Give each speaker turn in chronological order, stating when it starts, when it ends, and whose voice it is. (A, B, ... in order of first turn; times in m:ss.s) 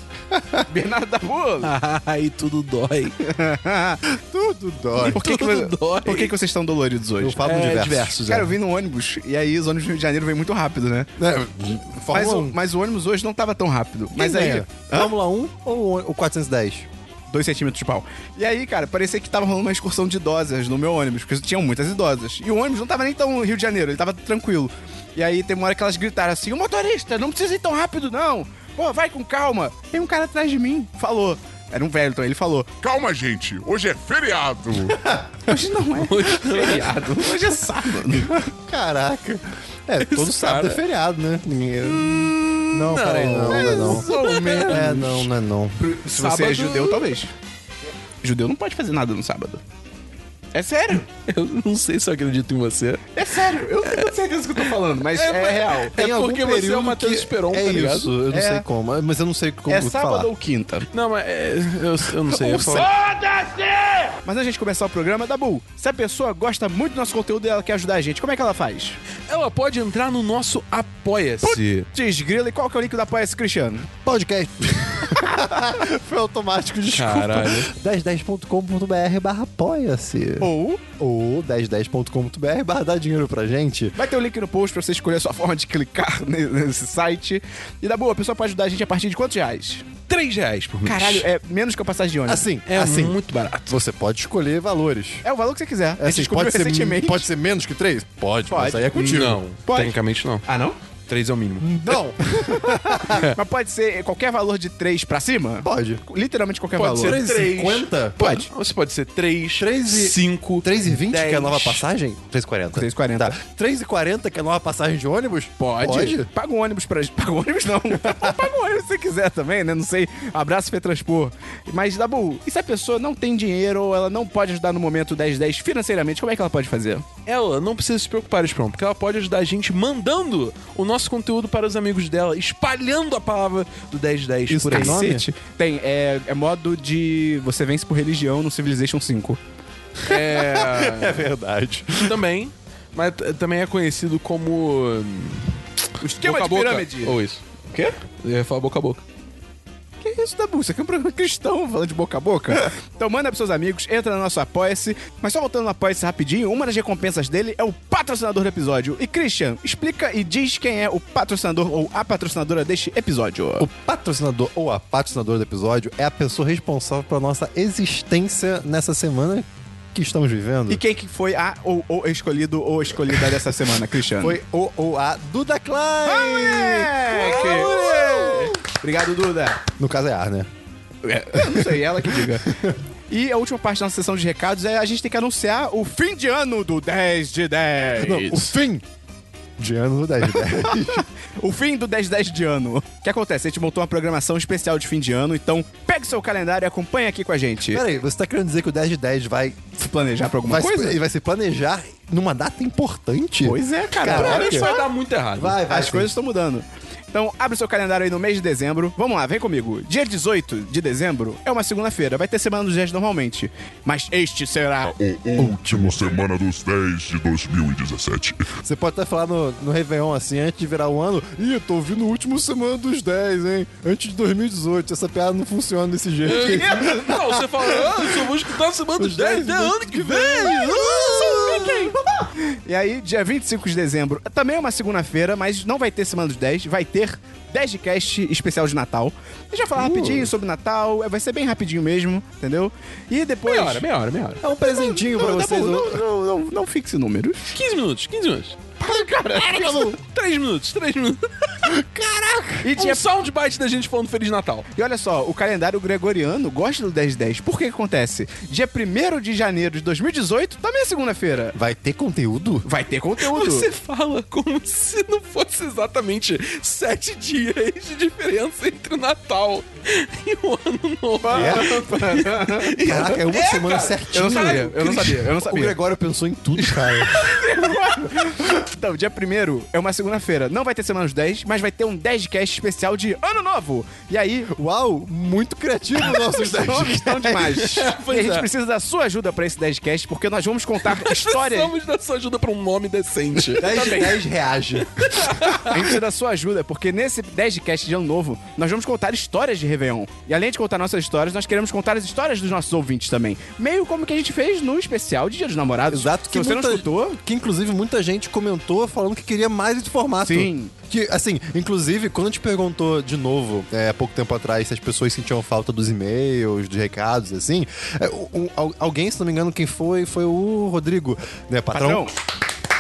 0:00.3-0:00.7 A
0:00.7-0:01.7 B
0:01.6-0:03.2 C
0:03.2-0:04.0 B
0:04.0-0:05.2 A
0:05.0-0:11.1 B
0:05.0-0:06.3 C
0:07.2-0:08.5 A
0:07.5-0:08.2 C
0:11.2-0:12.6 A
0:12.1-0:15.1 B
0:14.2-0:16.9 A
0:17.3-0:32.7 B
0:32.8-0:35.0 D
0:35.5-0:38.3 B
0:36.0-0:37.4 C
0:38.1-0:44.1 A
0:40.0-0:40.8 C
0:42.1-0:45.3 C
0:43.5-0:45.2 B
0:44.6-0:47.0 A
0:45.8-0:47.3 B
0:46.2-0:46.7 C
0:48.2-0:49.6 B
0:50.5-0:51.1 B
0:51.3-0:53.1 C
0:53.2-0:56.0 B
0:53.8-0:58.1 C
0:56.0-1:00.3 A
0:58.3-0:58.7 B
0:59.7-1:00.9 B
1:00.9-1:02.9 C
1:02.4-1:09.0 B
1:02.5-1:02.9 A
1:09.3-1:11.9 C
1:11.4-1:13.9 B
1:14.0-1:24.0 A
1:16.9-1:17.7 C
1:20.4-1:20.8 B
1:24.0-1:29.9 B
1:30.1-1:31.3 C
1:30.8-1:32.4 B
1:32.3-1:33.2 A
1:32.7-1:33.8 C
1:33.7-1:35.2 A
1:35.2-1:37.3 B
1:36.0-1:39.4 A
1:38.5-1:40.8 B
1:39.0-1:40.4 C
1:41.1-1:42.0 C
1:41.6-1:43.3 A
1:42.4-1:47.2 B
1:45.6-1:46.0 A
1:46.8-1:51.8 C
1:47.0-1:48.2 A
1:48.2-1:48.5 B
1:49.6-1:56.3 A
1:52.7-1:53.4 B
1:55.6-2:07.0 B
1:58.0-1:58.4 A
2:07.3-2:15.0 C
2:14.5-2:15.3 A
2:14.6-2:19.4 B
2:20.0-2:21.3 C
2:20.1-2:22.2 A
2:22.0-2:25.5 C
2:26.0-2:27.2 B
2:26.2-2:29.0 C
2:30.0-2:43.7 B
2:43.6-2:50.8 A
2:50.7-2:54.4 B
2:53.1-2:53.4 A
2:54.1-2:58.6 A
2:56.0-2:59.6 B
2:57.2-2:58.4 C
2:59.7-3:00.5 A
3:01.0-3:02.5 B
3:01.4-3:02.8 A
3:03.1-3:08.5 B
3:08.0-3:08.8 A
3:09.6-3:11.0 A
3:10.3-3:17.8 B
3:17.7-3:19.6 A
3:19.8-3:21.0 B
3:20.5-3:24.7 A
3:23.4-3:24.9 B
3:24.1-3:25.6 C
3:25.4-3:26.1 A
3:25.7-3:34.9 B
3:34.8-3:38.4 D
3:35.4-3:36.2 A
3:38.6-3:48.4 A
3:46.2-3:51.4 C
3:46.3-3:47.2 B
3:49.0-3:51.9 A
3:50.4-4:03.8 B
3:59.8-4:00.3 A
4:03.5-4:04.4 C
4:04.4-4:06.0 A
4:04.6-4:07.5 B
4:07.5-4:08.8 C
4:08.8-4:10.0 B
4:09.4-4:11.7 C
4:09.6-4:09.9 A
4:11.6-4:12.7 A
4:12.6-4:13.0 B
4:12.8-4:14.7 C
4:14.8-4:21.6 B
4:21.6-4:22.7 A
4:22.6-4:23.7 B
4:23.2-4:35.0 C
4:31.2-4:32.8 B
4:31.3-4:31.7 A
4:32.8-4:37.2 A
4:34.1-4:35.8 B
4:36.7-4:44.5 B
4:37.3-4:37.8 C
4:44.5-4:47.5 A
4:46.3-4:51.7 B
4:47.4-4:48.5 C
4:50.9-4:54.2 C
4:53.6-4:54.1 B
4:53.6-4:55.3 A
4:54.8-4:55.9 C
4:55.5-5:07.2 B
5:05.9-5:22.1 A
5:10.2-5:10.7 B
5:21.7-5:22.2 B